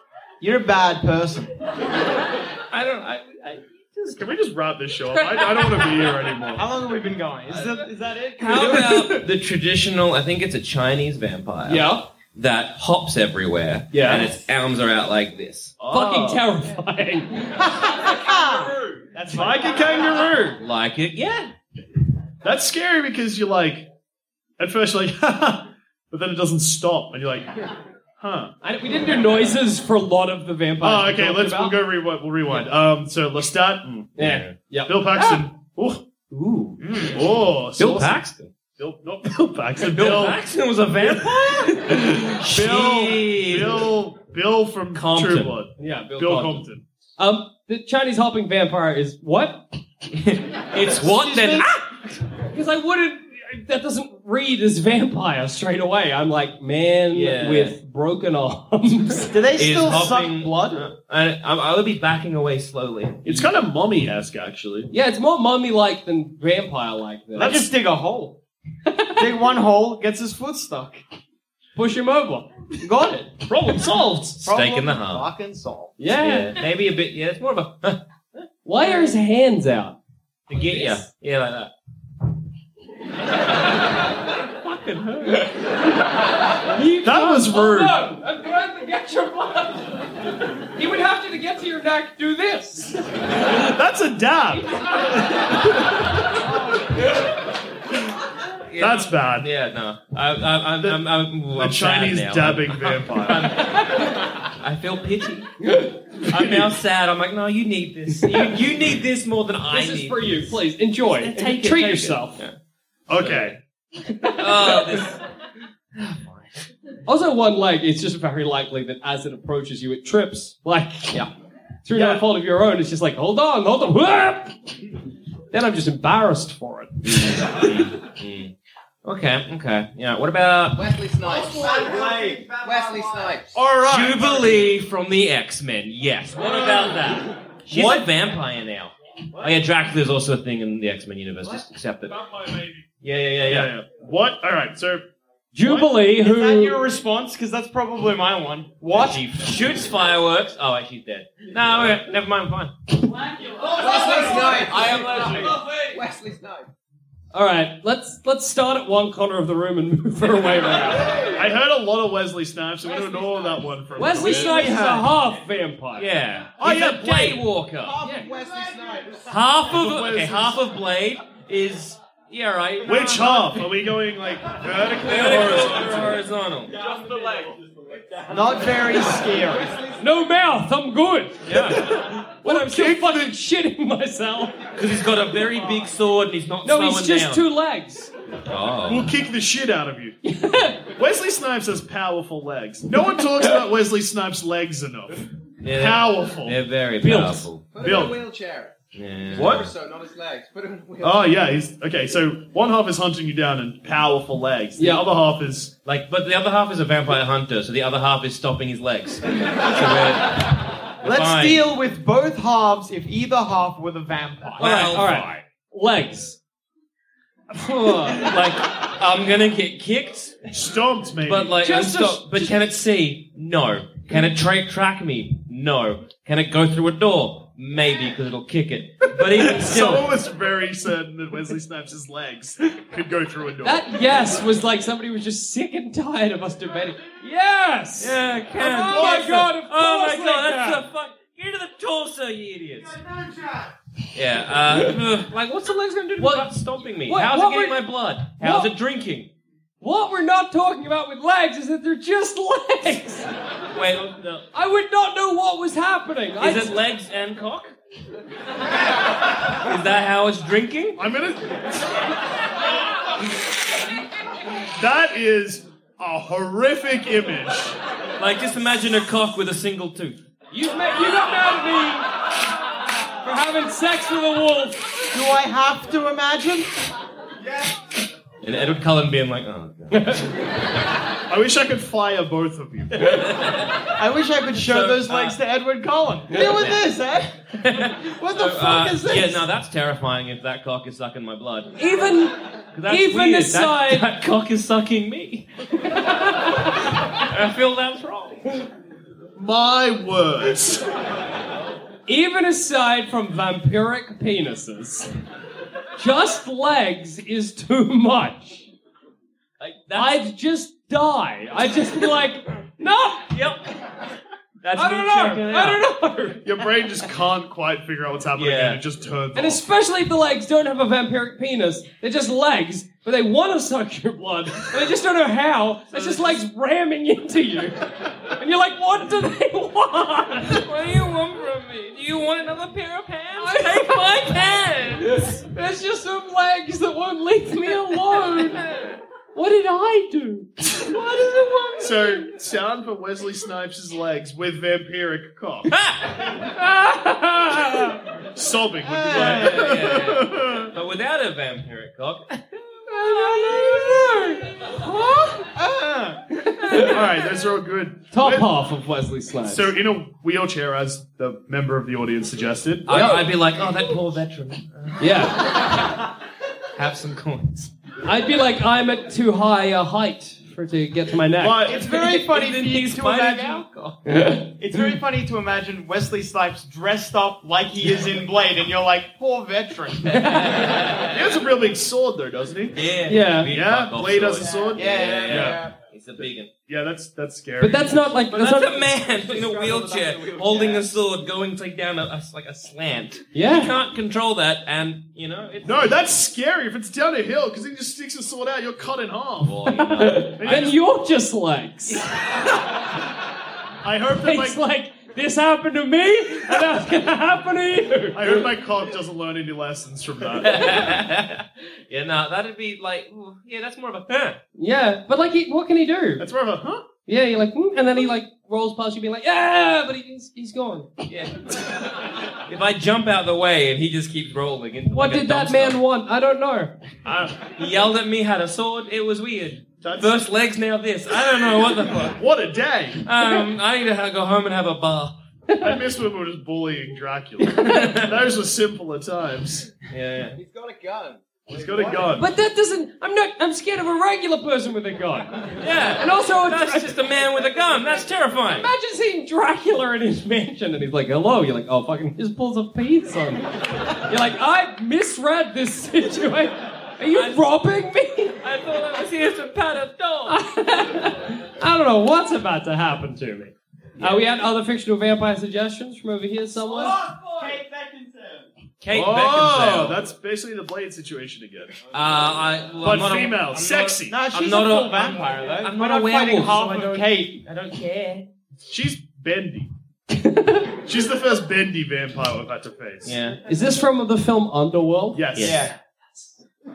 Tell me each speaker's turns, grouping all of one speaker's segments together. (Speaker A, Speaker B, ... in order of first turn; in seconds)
Speaker A: 0.4-1.5, 6.5-9.2, 17.8-20.2, 36.8-37.3, 50.9-51.7, 59.2-60.9, 67.4-68.4, 69.2-71.0, 72.8-73.5, 74.4-76.0, 131.9-132.5, 133.5-134.6, 146.2-149.5, 164.5-165.0, 178.3-179.8, 211.0-214.9, 275.1-276.7, 284.0-287.4, 288.0-289.4, 348.8-349.9, 355.4-356.2, 371.6-373.7, 374.6-380.2, 384.7-385.5, 467.2-468.4, 474.1-477.4, 485.4-485.7
Speaker B: 2.7-4.2, 8.4-15.8, 20.6-21.5, 33.9-34.5, 36.3-37.1, 37.8-38.5, 39.9-43.9, 44.9-45.6, 50.1-52.2, 57.1-57.8, 59.6-63.5, 74.4-75.3, 76.1-78.0, 80.5-81.7, 84.5-85.5, 98.7-105.5, 106.2-112.6, 113.2-113.6, 114.4-115.2, 116.0-116.7, 127.0-128.5, 129.0-130.9, 133.8-142.4, 143.0-143.7, 148.9-152.7, 166.0-168.0, 169.3-173.7, 175.0-176.8, 181.5-182.0, 184.8-187.5, 188.5-189.1, 195.6-197.7, 198.9-199.7, 205.8-211.7, 214.6-215.3, 218.0-220.5, 221.2-230.1, 238.0-243.1, 244.1-249.3, 253.7-254.4, 256.4-257.8, 259.6-261.0, 268.2-270.2, 278.4-280.3, 283.1-283.8, 284.6-285.4, 286.4-286.8, 287.6-291.8, 292.7-295.5, 297.1-298.7, 309.6-310.2, 313.3-313.6, 314.6-315.8, 318.4-318.8, 325.9-326.4, 330.4-335.4, 338.7-339.0, 345.7-346.3, 349.1-352.4, 353.3-354.1, 362.9-365.5, 366.8-367.7, 371.8-374.0, 380.1-381.3, 382.8-386.5, 388.3-395.9, 399.4-400.6, 410.4-414.4, 421.1-421.9, 422.5-425.8, 427.5-432.2, 433.0-435.2, 437.6-438.2, 439.9-440.4, 445.6-448.7, 457.1-457.5, 458.4-460.4, 464.0-464.2, 468.8-470.0, 471.9-478.3, 483.1-483.4, 485.4-485.6
Speaker C: 4.2-6.7, 15.8-16.5, 19.3-20.6, 22.4-23.9, 24.6-27.6, 28.2-28.5, 30.8-34.0, 34.9-36.0, 37.1-38.2, 38.8-40.4, 41.0-46.8, 63.2-64.9, 67.3-67.7, 73.4-74.4, 87.0-88.1, 93.4-95.7, 98.8-99.5, 100.8-103.6, 106.3-106.7, 113.1-113.6, 121.9-122.3, 136.6-136.8, 142.4-142.8, 143.4-145.1, 145.6-146.0, 161.3-165.1, 166.6-167.4, 169.7-170.6, 172.8-176.2, 181.9-183.3, 188.9-190.2, 190.9-196.6, 197.8-198.2, 199.3-199.7, 201.0-205.7, 220.5-221.6, 229.3-234.0, 261.0-261.9, 264.8-267.8, 281.3-283.2, 299.4-300.8, 316.4-319.6, 341.8-345.7, 348.4-350.7, 356.7-358.5, 359.4-363.2, 371.4-372.1, 381.1-382.8, 383.5-385.6, 386.2-388.1, 395.6-399.6, 400.4-400.8, 403.8-404.6, 408.1-410.9, 416.2-416.8, 427.1-427.3, 429.8-430.2, 432.1-433.0, 435.6-439.7, 441.5-442.3, 468.9-471.8, 472.8-474.1, 478.7-479.7, 480.9-483.2, 485.1-485.7
Speaker D: 5.3-5.8, 8.5-9.2, 11.7-12.0, 13.9-14.3, 15.9-17.9, 28.6-31.8, 34.2-35.4, 45.8-46.6, 47.2-49.6, 52.5-59.4, 64.9-67.6, 68.9-69.2, 71.8-72.5, 76.0-76.6, 78.7-80.0, 80.5-81.0, 86.7-90.0, 90.6-93.0, 105.7-105.9, 109.7-112.4, 114.1-115.1, 117.1-121.2, 121.8-124.8, 125.5-127.5, 145.5-146.8, 157.3-161.3, 164.0-166.1, 168.0-168.3, 180.0-184.6, 186.6-188.1, 190.2-190.8, 197.0-197.5, 204.8-205.0, 214.6-216.4, 217.5-218.3, 221.6-222.6, 233.6-240.8, 246.2-248.7, 249.8-253.3, 254.5-256.8, 270.5-272.1, 273.2-274.8, 279.9-280.2, 291.8-294.1, 295.9-296.8, 302.1-305.1, 306.0-308.7, 309.9-313.3, 314.8-316.5, 319.4-330.6, 333.4-334.4, 335.0-338.6, 339.4-342.2, 346.4-348.1, 352.9-355.4, 356.5-356.9, 358.1-359.7, 362.9-363.2, 365.0-365.4, 368.1-371.7, 374.1-374.4, 380.1-380.8, 383.1-383.5, 387.6-388.9, 393.3-393.7, 399.7-402.1, 404.2-408.4, 414.6-416.2, 417.1-420.9, 424.9-426.7, 435.5-435.8, 442.2-446.9, 448.5-458.4, 460.3-467.0, 480.1-480.7, 483.5-485.2
Speaker E: 130.7-133.6, 153.3-156.7, 162.9-163.6, 167.8-169.6, 176.7-179.8, 197.7-198.7, 199.3-201.5, 384.4-385.8, 389.0-391.0, 440.3-442.2